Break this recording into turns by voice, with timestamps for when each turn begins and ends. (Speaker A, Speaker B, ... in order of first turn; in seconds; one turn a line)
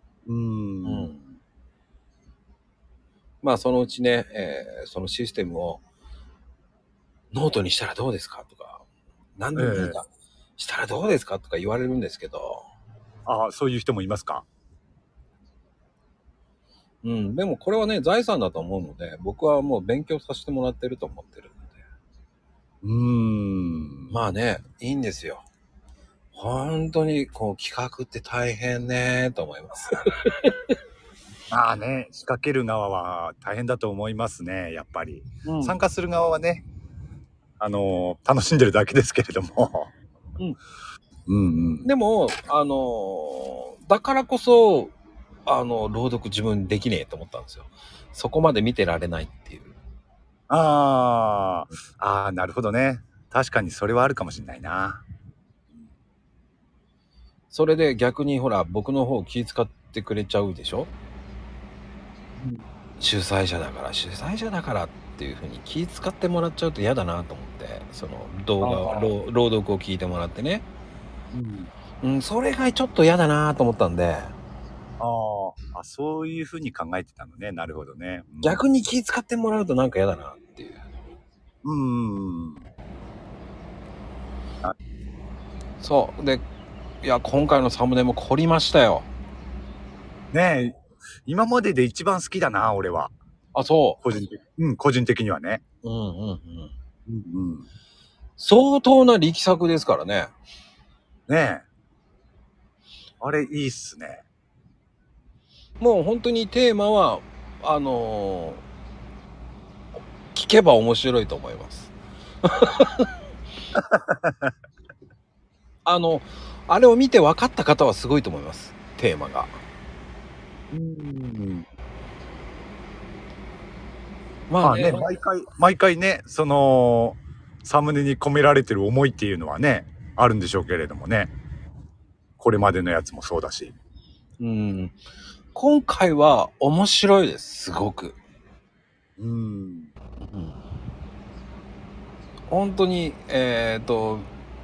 Speaker A: 0.3-1.1
Speaker B: 0.8-1.3
Speaker B: 3.4-5.8
Speaker B: 7.3-8.8
Speaker B: 9.4-10.1
Speaker A: 9.6-10.0
Speaker B: 10.6-12.7
Speaker A: 13.3-14.5
Speaker B: 17.0-21.7
Speaker A: 22.8-24.1
Speaker B: 24.1-25.5
Speaker B: 26.4-30.6
Speaker A: 31.5-36.7
Speaker B: 35.5-35.8
Speaker A: 37.6-39.9
Speaker A: 41.3-41.9
Speaker B: 41.9-44.9
Speaker B: 45.5-49.8
Speaker A: 50.5-55.1
Speaker B: 57.5-60.9
Speaker B: 63.0-70.7
Speaker A: 68.6-69.1
Speaker A: 71.3-71.7
Speaker B: 72.0-74.3
Speaker A: 75.0-78.6
Speaker B: 78.4-80.8
Speaker A: 81.6-82.7
Speaker B: 85.8-86.5
Speaker B: 87.0-89.1
Speaker A: 90.3-93.1
Speaker B: 93.5-94.0
Speaker A: 94.0-95.6
Speaker B: 95.8-96.7
Speaker A: 97.1-97.7
Speaker B: 98.4-100.3
Speaker A: 101.3-101.7
Speaker A: 103.2-104.2
Speaker B: 105.8-108.6
Speaker B: 110.3-111.9
Speaker B: 112.4-113.1
Speaker A: 113.8-114.5
Speaker B: 115.8-119.6
Speaker A: 120.7-121.7
Speaker B: 124.5-125.1
Speaker A: 124.6-131.3
Speaker A: 132.4-133.7
Speaker B: 134.4-135.0
Speaker B: 135.6-138.2
Speaker A: 139.2-139.9
Speaker B: 140.2-140.6
Speaker B: 142.5-144.3